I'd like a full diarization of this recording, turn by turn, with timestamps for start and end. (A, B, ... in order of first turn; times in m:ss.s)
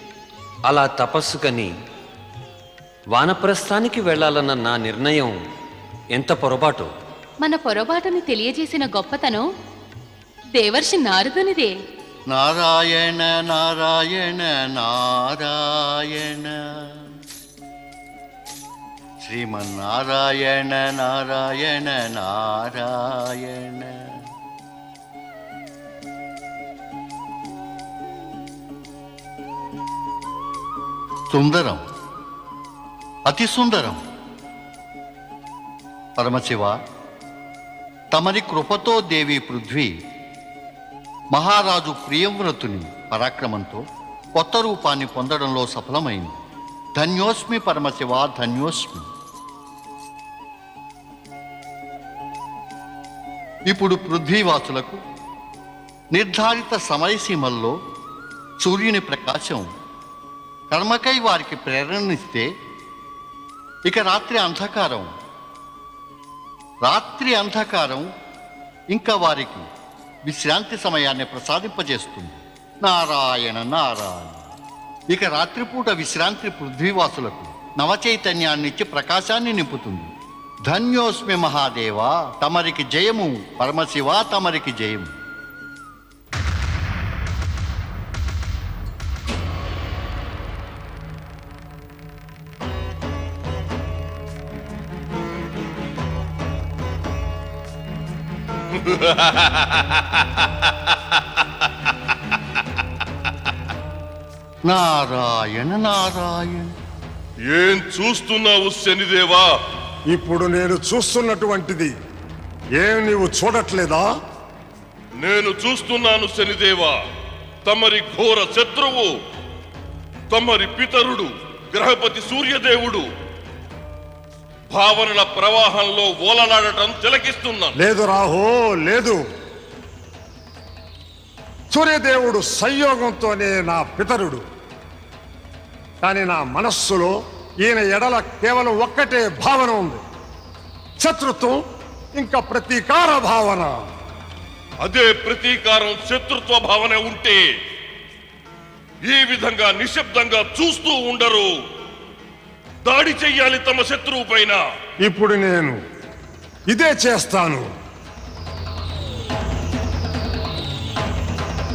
0:00.7-0:01.7 A
0:03.1-0:05.4 A
0:06.1-0:06.9 A
0:07.4-0:09.4 B
0:10.5-0:11.7 B
0:12.3-0:17.0 C
0:19.2-0:24.0 C
0:31.3-0:31.8 C
0:33.3-0:34.0 C
0:36.2-0:36.8 C
0:38.1-0:39.9 C
0:41.3-0:43.8 C
0:44.4-0:46.4 C
0:47.0-0:49.1 C
0:53.7-0:55.0 C
0:56.1-0:57.7 C
0:58.6-0:59.7 C
1:00.7-1:02.5 C
1:03.8-1:05.1 C
1:06.8-1:08.1 C
1:08.9-1:09.6 C
1:10.2-1:14.5 C
1:15.1-1:20.1 C
1:20.7-1:25.1 C
1:38.7-1:41.7 D
1:44.6-1:46.7 C
1:47.5-1:49.5 D
1:50.1-1:51.9 E
1:52.8-1:54.0 E
1:55.2-1:57.0 D
1:57.6-1:59.1 D
2:00.3-2:03.0 D
2:04.7-2:07.7 D
2:07.8-2:09.2 E
2:11.7-2:14.4 E
2:16.0-2:17.1 E
2:17.6-2:20.0 E
2:21.0-2:21.6 E
2:22.2-2:23.8 E
2:24.8-2:27.4 D
2:29.0-2:31.5 D
2:32.8-2:34.6 D
2:35.1-2:35.7 E
2:36.7-2:37.6 E